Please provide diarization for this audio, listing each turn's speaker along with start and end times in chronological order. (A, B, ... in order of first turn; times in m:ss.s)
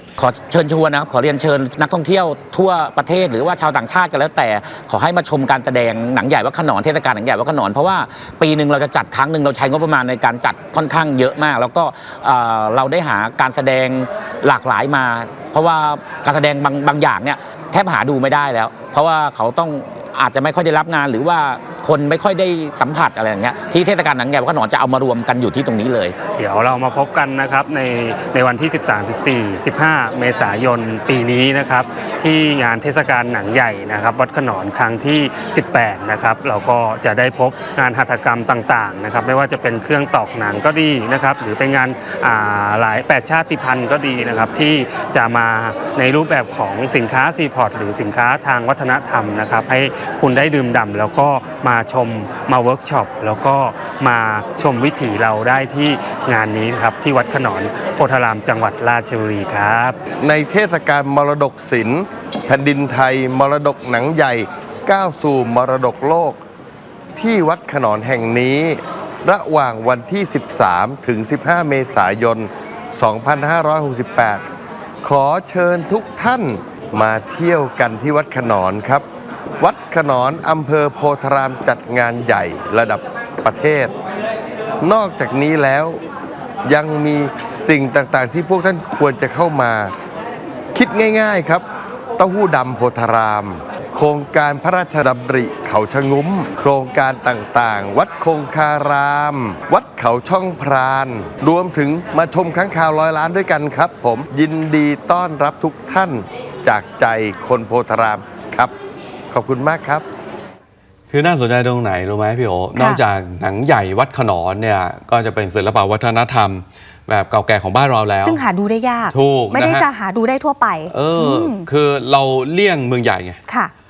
0:00.2-0:26.2 A
0:26.4-1:00.0 B
1:00.2-1:06.4 C
1:07.2-1:14.4 C
1:15.0-1:19.0 C
1:19.6-1:23.9 C
1:24.8-1:26.0 C
1:26.6-1:29.9 C
1:30.7-1:31.6 C
1:32.2-1:48.7 C
1:49.3-1:50.0 C
1:51.1-1:58.4 D
1:52.8-1:53.0 E
1:58.2-2:01.7 E
1:59.1-1:59.9 D
2:00.9-2:03.4 D